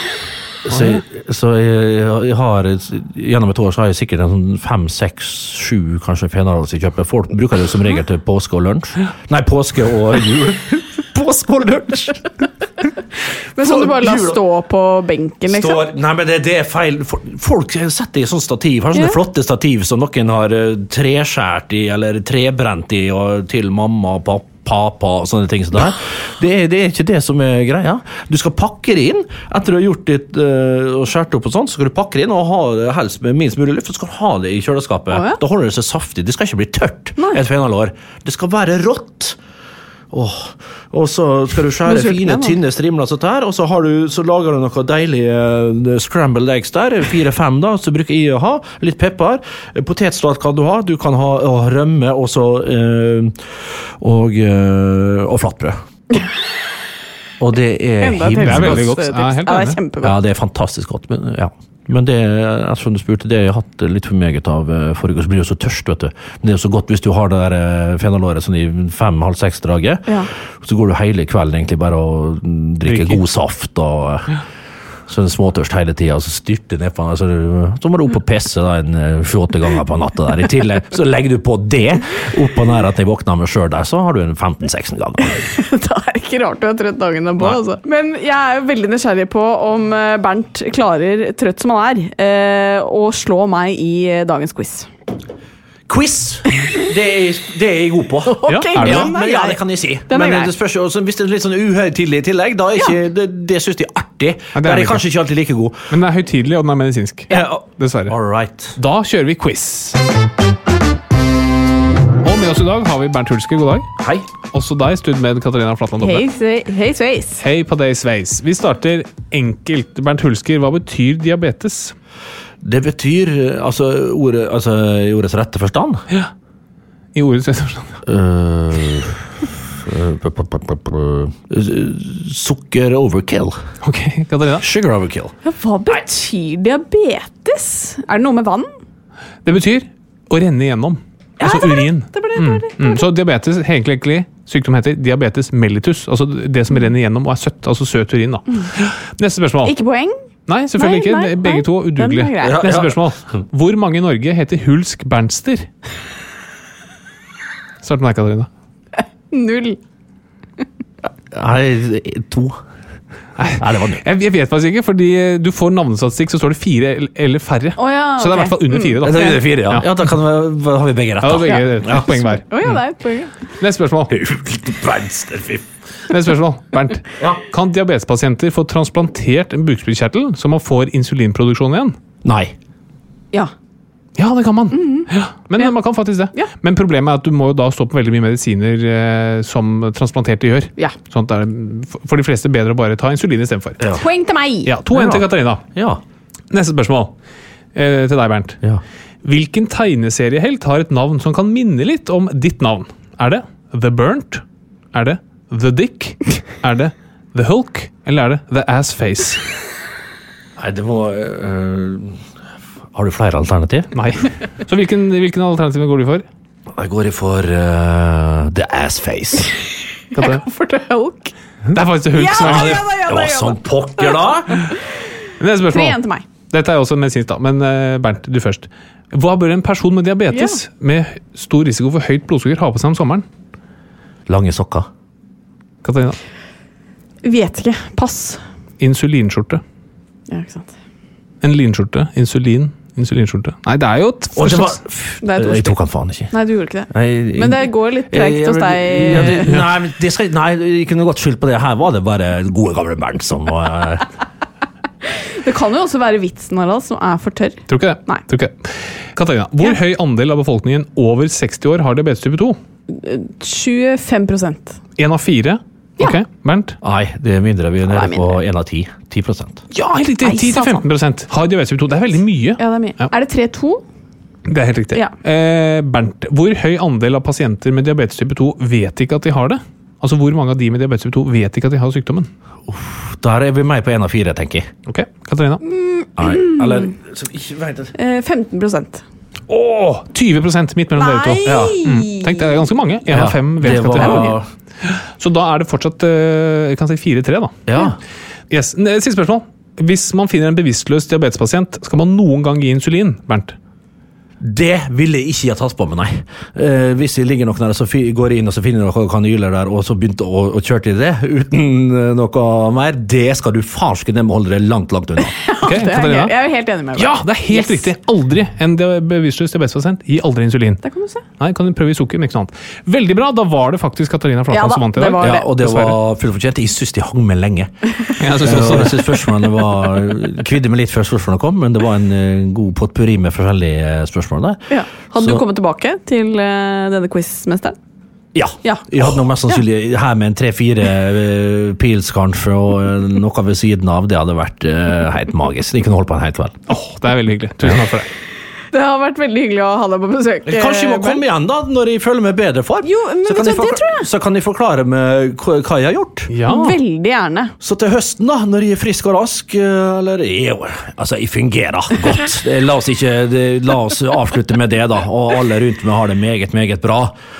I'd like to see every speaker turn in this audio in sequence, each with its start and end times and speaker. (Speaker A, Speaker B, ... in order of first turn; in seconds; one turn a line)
Speaker A: 0.6-12.9
Speaker B: 0.7-1.0
Speaker C: 13.6-15.8
Speaker A: 13.6-14.4
Speaker A: 15.5-39.4
Speaker C: 35.1-35.4
Speaker A: 40.1-55.8
Speaker C: 41.9-42.5
Speaker A: 57.4-59.0
Speaker C: 58.0-60.1
Speaker B: 58.3-59.8
Speaker A: 60.0-74.4
Speaker B: 72.9-73.2
Speaker A: 75.1-85.5
Speaker C: 85.4-94.9
Speaker A: 95.9-105.9
Speaker C: 98.3-100.5
Speaker B: 98.5-99.1
Speaker B: 104.5-105.0
Speaker B: 105.9-108.2
Speaker A: 107.3-108.8
Speaker B: 108.8-110.0
Speaker B: 112.2-113.9
Speaker A: 114.0-114.3
Speaker B: 114.4-116.3
Speaker C: 116.0-117.4
Speaker B: 117.4-122.0
Speaker A: 122.6-126.0
Speaker B: 127.2-128.0
Speaker A: 128.1-133.6
Speaker B: 133.8-134.7
Speaker A: 134.6-135.3
Speaker C: 135.4-138.7
Speaker B: 139.4-149.8
Speaker C: 141.4-143.1
Speaker C: 149.6-150.2
Speaker B: 150.5-155.7
Speaker C: 150.8-152.6
Speaker A: 152.4-153.1
Speaker B: 157.8-158.5
Speaker C: 159.0-159.8
Speaker A: 161.3-162.6
Speaker B: 163.4-169.9
Speaker A: 163.5-164.0
Speaker C: 167.8-169.0
Speaker A: 169.0-172.2
Speaker B: 171.2-172.8
Speaker C: 171.4-173.4
Speaker B: 173.6-174.1
Speaker A: 174.1-175.7
Speaker B: 176.1-182.0
Speaker A: 182.2-182.5
Speaker B: 184.2-193.8
Speaker C: 184.7-185.1
Speaker C: 194.0-194.7
Speaker B: 194.6-195.6
Speaker A: 194.9-196.0
Speaker B: 196.5-197.1
Speaker B: 197.7-198.6
Speaker B: 199.2-209.5
Speaker A: 210.6-212.2
Speaker A: 212.9-213.9
Speaker B: 213.9-216.3
Speaker A: 216.7-219.6
Speaker C: 220.1-221.3
Speaker B: 220.2-220.4
Speaker B: 221.7-222.8
Speaker C: 222.1-224.2
Speaker A: 222.3-224.7
Speaker B: 225.4-226.0
Speaker C: 225.7-226.2
Speaker B: 226.5-233.3
Speaker C: 230.3-230.6
Speaker A: 234.3-234.9
Speaker B: 235.8-236.2
Speaker C: 237.2-238.4
Speaker B: 238.8-239.6
Speaker C: 240.3-240.7
Speaker B: 241.4-244.8
Speaker A: 244.4-246.3
Speaker C: 245.2-245.8
Speaker C: 246.3-249.5
Speaker A: 246.9-254.1
Speaker B: 249.3-249.7
Speaker C: 255.1-258.2
Speaker B: 257.7-262.6
Speaker C: 262.9-264.8
Speaker B: 265.0-266.8
Speaker A: 266.8-269.6
Speaker C: 267.9-268.3
Speaker B: 269.7-273.1
Speaker C: 270.2-270.8
Speaker C: 272.6-273.8
Speaker B: 274.5-282.3
Speaker A: 282.7-284.7
Speaker B: 284.9-285.6
Speaker C: 285.6-286.9
Speaker A: 286.2-287.9
Speaker C: 287.9-289.0
Speaker B: 289.5-297.6
Speaker C: 291.0-292.6
Speaker A: 291.4-291.8
Speaker A: 293.1-294.5
Speaker C: 294.0-294.3
Speaker A: 297.7-298.0
Speaker B: 298.5-303.6
Speaker A: 304.4-315.3
Speaker C: 315.3-317.9
Speaker B: 315.6-316.3
Speaker B: 316.9-320.8
Speaker C: 320.8-321.2
Speaker B: 321.4-326.0
Speaker C: 324.5-325.5
Speaker A: 325.2-327.7
Speaker B: 328.2-329.2
Speaker A: 328.4-334.6
Speaker C: 334.7-337.8
Speaker A: 338.4-346.6
Speaker B: 346.7-348.1
Speaker C: 348.7-351.2
Speaker A: 350.4-356.3
Speaker C: 352.8-354.1
Speaker B: 356.3-356.8
Speaker C: 356.5-357.5
Speaker A: 357.6-367.2